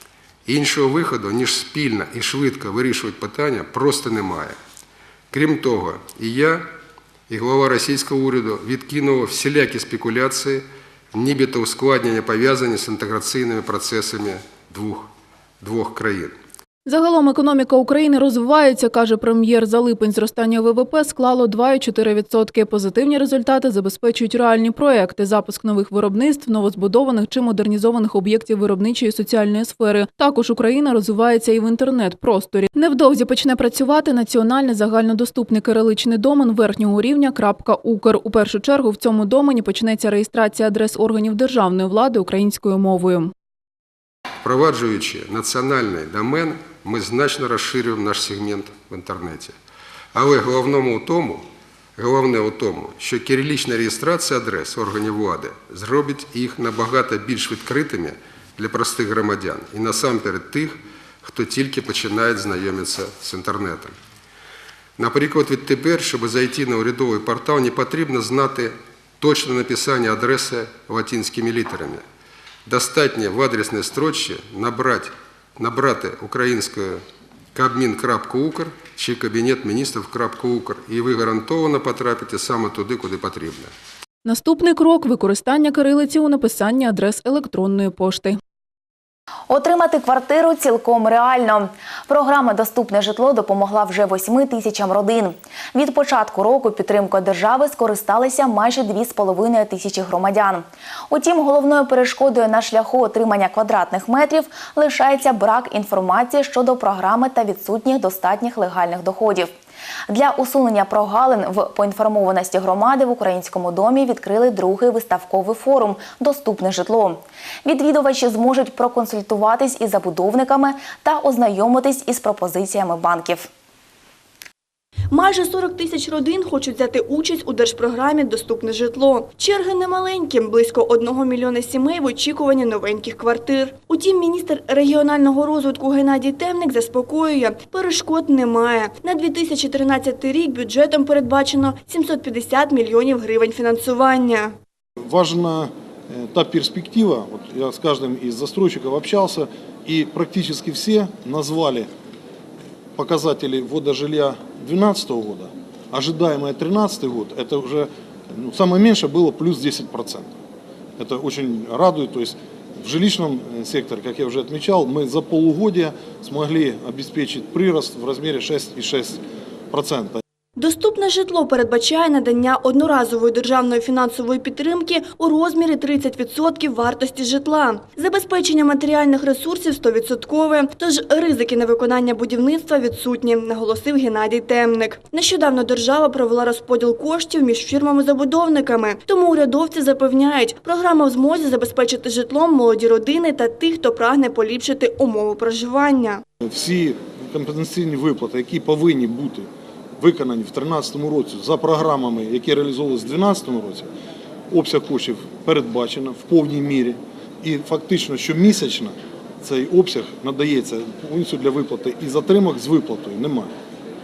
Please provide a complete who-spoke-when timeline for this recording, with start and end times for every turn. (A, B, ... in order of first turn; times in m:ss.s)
0:00.4-0:04.6 A
0:05.3-0:06.7 A
0:07.3-0:15.1 A
0:15.6-0:16.4 A
0:16.9-0:43.3 B
0:44.4-0:49.6 A
0:50.1-0:51.5 A
0:52.0-1:04.0 A
1:05.0-1:12.0 A
1:12.7-1:17.0 A
1:17.5-1:23.7 A
1:24.2-1:28.4 B
1:29.5-1:49.5 C
1:50.1-2:03.5 C
2:05.1-2:24.6 D
2:25.1-2:31.9 E
2:33.0-2:40.3 E
2:41.0-2:50.2 E
2:50.6-3:16.2 D
3:16.4-3:23.9 E
3:24.5-3:33.5 E